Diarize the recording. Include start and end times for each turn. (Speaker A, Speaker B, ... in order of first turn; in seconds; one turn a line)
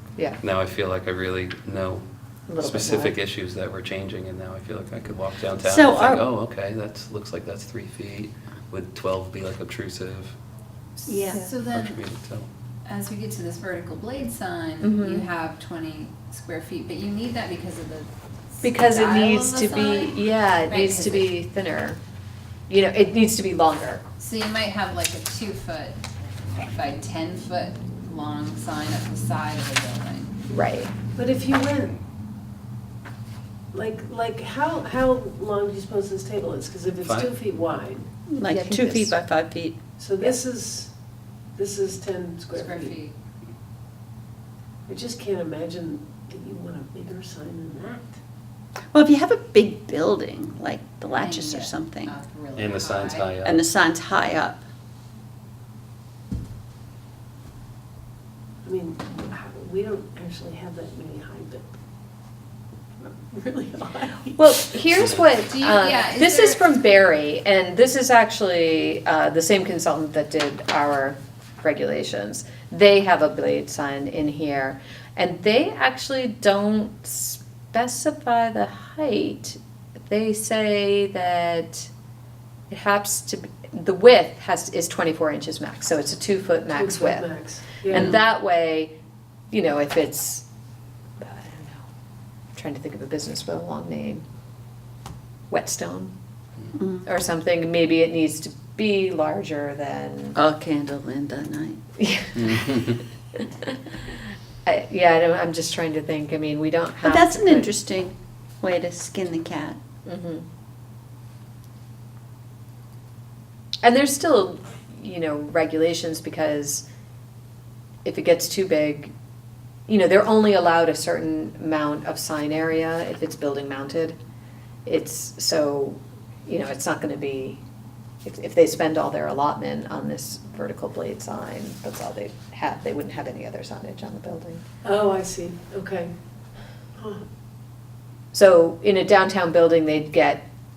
Speaker A: 0.4-10.4
Speaker B: 2.5-3.1
Speaker C: 5.6-6.3
Speaker D: 11.1-12.0
Speaker C: 11.1-11.4
Speaker A: 11.5-12.5
Speaker D: 12.9-21.3
Speaker B: 14.8-15.2
Speaker C: 14.8-15.2
Speaker B: 18.6-22.0
Speaker B: 22.7-24.0
Speaker D: 24.2-26.0
Speaker D: 26.6-30.3
Speaker B: 30.5-30.9
Speaker E: 31.2-32.0
Speaker E: 33.7-38.1
Speaker A: 37.0-37.4
Speaker C: 38.3-39.8
Speaker B: 38.4-39.2
Speaker E: 40.0-40.9
Speaker E: 41.6-43.0
Speaker D: 42.5-43.2
Speaker E: 44.9-48.2
Speaker C: 48.9-52.1
Speaker D: 51.1-53.3
Speaker A: 52.6-53.7
Speaker C: 53.4-54.6
Speaker E: 58.6-61.7
Speaker E: 63.0-64.8
Speaker B: 64.4-81.9
Speaker A: 64.9-65.3
Speaker D: 65.4-66.7
Speaker B: 82.7-87.3
Speaker E: 86.7-88.2
Speaker B: 87.9-88.9
Speaker B: 89.5-90.5
Speaker B: 91.2-91.9
Speaker B: 92.5-94.2
Speaker B: 95.5-96.1
Speaker C: 96.8-97.1
Speaker B: 97.0-100.4
Speaker C: 100.4-101.8
Speaker B: 102.0-102.9
Speaker A: 102.4-103.0
Speaker B: 104.7-107.7
Speaker C: 107.0-109.8
Speaker B: 110.1-110.5
Speaker B: 113.8-116.9
Speaker B: 118.0-119.1
Speaker B: 119.9-124.2
Speaker B: 124.9-127.6
Speaker B: 128.2-134.6
Speaker E: 134.8-136.1
Speaker E: 137.0-137.2
Speaker B: 138.3-140.4